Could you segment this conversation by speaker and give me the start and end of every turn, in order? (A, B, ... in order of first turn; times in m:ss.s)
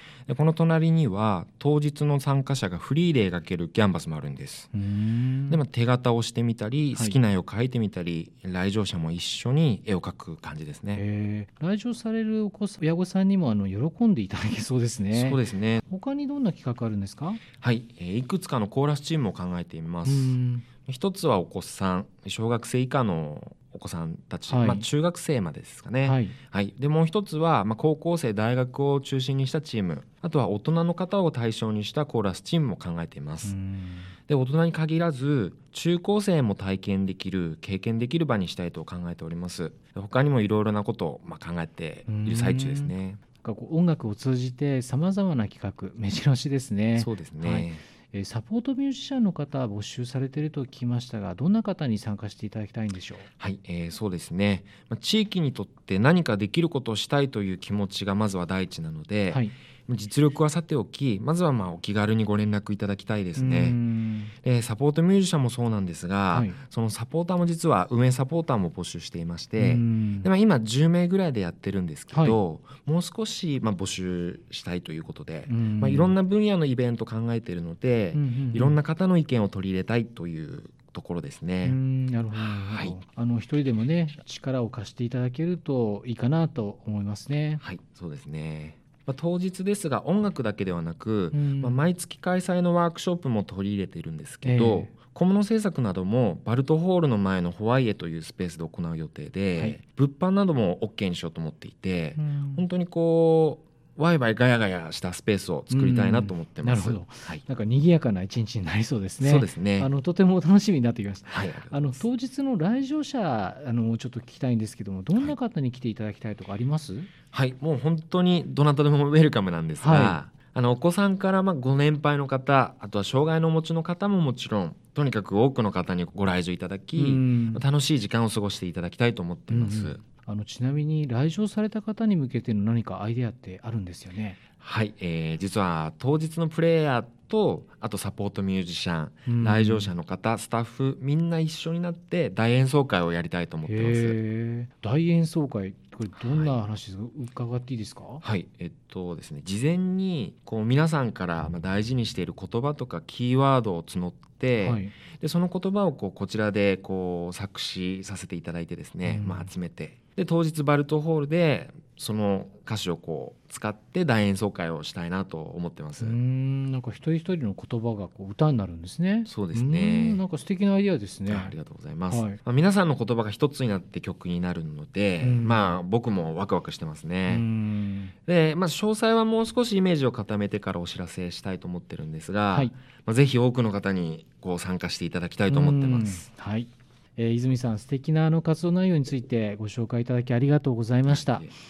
0:00.3-0:04.7 A
0:04.7-0:05.6 B
0:05.5-0:11.0 A
0:10.9-0:17.4 B
0:15.1-0:15.8 A
0:17.6-0:33.6 A
0:20.0-0:20.7 B
0:24.5-0:24.9 B
0:26.0-0:26.4 B
0:33.4-0:34.1 B
0:34.3-0:43.2 A
0:42.1-0:53.3 B
0:47.0-0:47.8 A
0:53.4-1:03.8 A
1:03.4-1:04.3 B
1:04.4-1:21.8 A
1:06.3-1:06.6 B
1:09.6-1:10.3 B
1:12.1-1:12.4 B
1:15.5-1:16.2 B
1:18.1-1:18.8 B
1:21.6-1:27.6 B
1:22.3-1:23.0 A
1:27.6-1:47.4 A
1:31.3-1:31.8 B
1:34.4-1:34.9 B
1:42.2-1:42.7 B
1:45.7-1:57.1 B
1:49.2-1:49.9 A
1:51.3-1:52.0 A
1:57.3-2:10.0 A
1:59.8-2:00.2 B
2:07.0-2:07.6 B
2:09.5-2:14.4 B
2:14.6-2:24.2 A
2:19.3-2:19.9 B
2:23.6-2:28.2 B
2:26.2-2:26.5 A
2:28.2-2:46.1 A
2:34.6-2:35.0 B
2:39.0-2:39.5 B
2:46.0-2:51.6 B
2:49.3-2:50.2 A
2:51.3-2:57.5 A
2:52.1-2:52.4 B
2:55.2-2:55.6 B
2:57.3-2:58.1 B
2:58.3-3:06.3 A
3:05.5-3:11.5 B
3:11.1-3:11.5 A